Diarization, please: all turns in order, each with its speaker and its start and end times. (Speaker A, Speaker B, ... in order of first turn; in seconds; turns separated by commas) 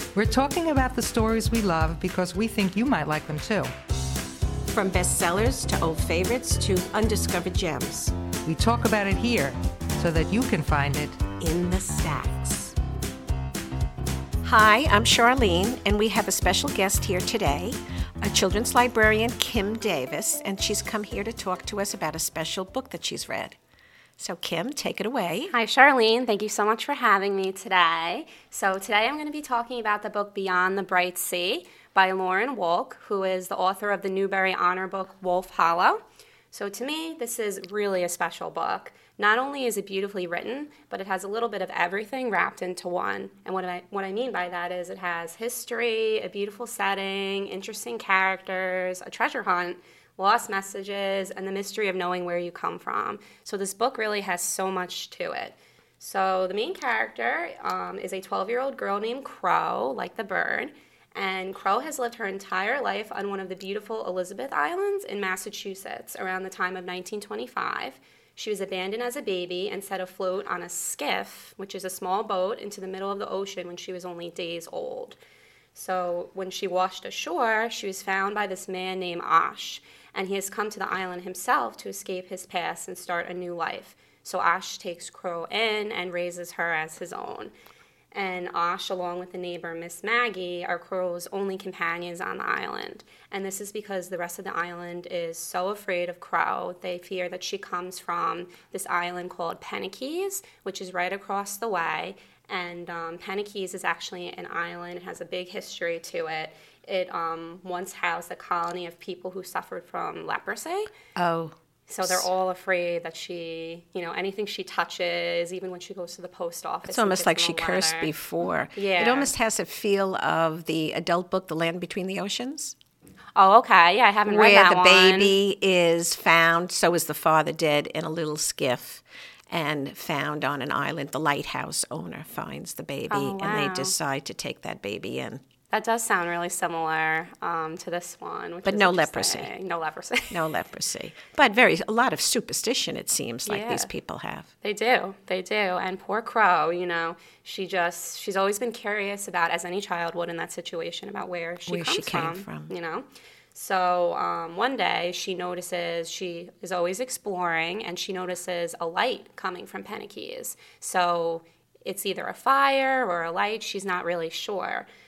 Speaker A: 0.1-3.7, Speaker B: 4.7-8.1, Speaker A: 8.4-11.2, Speaker B: 11.4-12.8, Speaker B: 14.4-23.6, Speaker B: 24.2-25.5, Speaker C: 25.5-36.0, Speaker C: 36.5-75.2, Speaker C: 75.7-87.5, Speaker C: 88.1-110.9, Speaker B: 111.2-112.3, Speaker C: 111.9-118.1, Speaker B: 116.8-122.8, Speaker C: 118.7-119.3, Speaker C: 123.3-125.4, Speaker B: 124.3-135.4, Speaker C: 133.1-133.9, Speaker C: 135.7-140.5, Speaker B: 138.7-139.5, Speaker B: 140.3-144.5, Speaker C: 143.5-143.9, Speaker C: 144.6-164.9, Speaker B: 151.7-152.7